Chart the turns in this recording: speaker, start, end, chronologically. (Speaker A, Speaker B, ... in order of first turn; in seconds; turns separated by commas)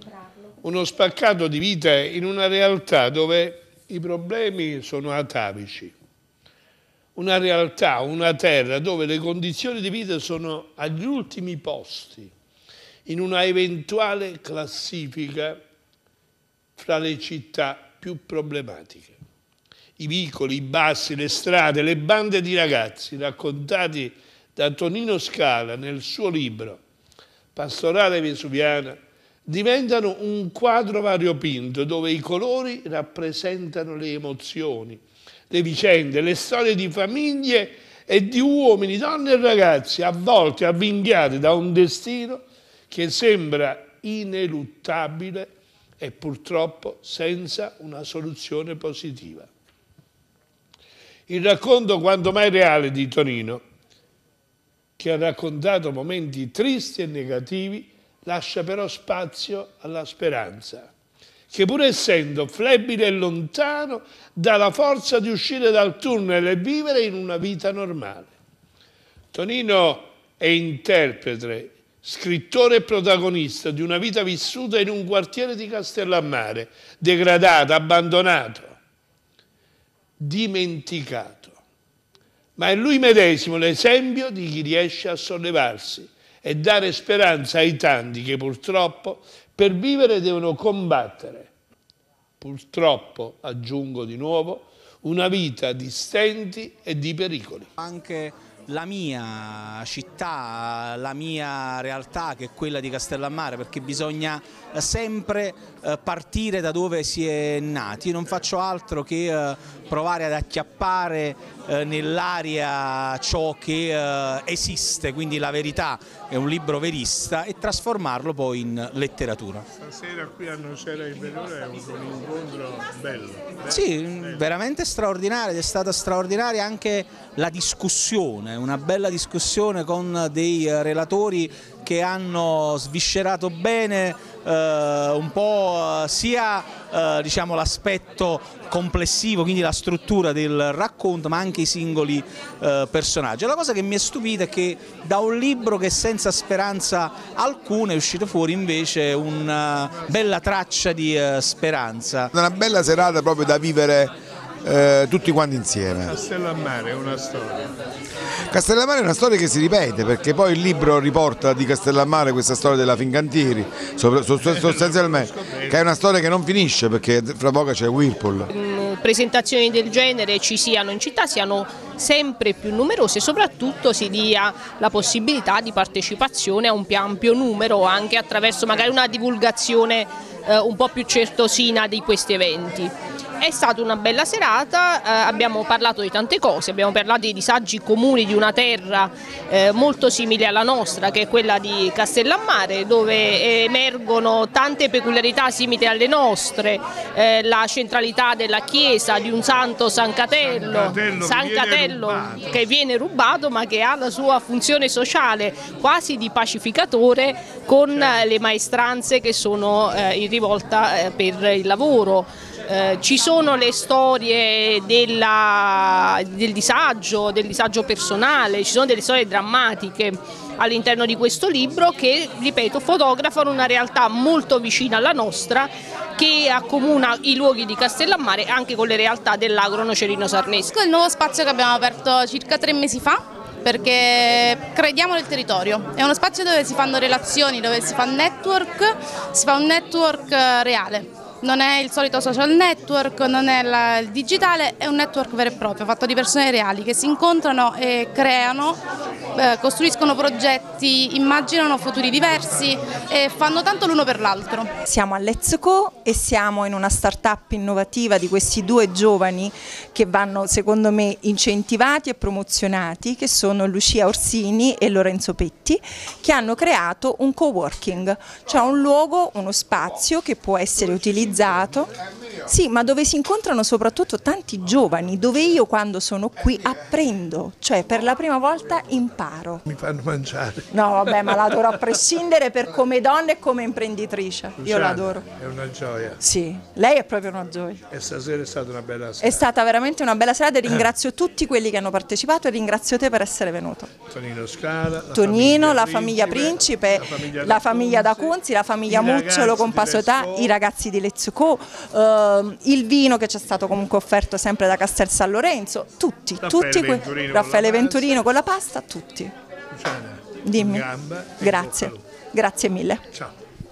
Speaker A: 0.6-5.9, Speaker A: 7.1-12.3, Speaker A: 13.1-15.6, Speaker A: 16.8-19.2, Speaker A: 20.0-26.8, Speaker A: 27.5-49.5, Speaker A: 51.3-53.6, Speaker A: 55.0-60.9, Speaker A: 61.5-68.3, Speaker A: 69.3-78.8, Speaker A: 80.2-81.5, Speaker A: 82.5-91.5, Speaker A: 92.4-97.7, Speaker B: 97.8-119.7, Speaker A: 119.8-124.5, Speaker B: 123.7-152.3, Speaker C: 152.3-154.1, Speaker C: 154.6-156.2, Speaker A: 156.0-157.7, Speaker C: 158.5-168.5, Speaker A: 164.2-165.9, Speaker D: 168.5-230.8, Speaker A: 200.3-202.6, Speaker A: 207.9-208.3, Speaker E: 230.7-248.8, Speaker E: 249.3-254.7, Speaker F: 254.9-279.6, Speaker A: 279.7-280.7, Speaker F: 280.7-285.3, Speaker A: 284.6-286.2, Speaker F: 286.2-287.8, Speaker A: 287.9-289.5, Speaker F: 289.2-294.0, Speaker A: 294.1-300.6, Speaker F: 295.1-309.3, Speaker A: 306.4-308.2, Speaker A: 309.7-312.0, Speaker F: 310.4-313.0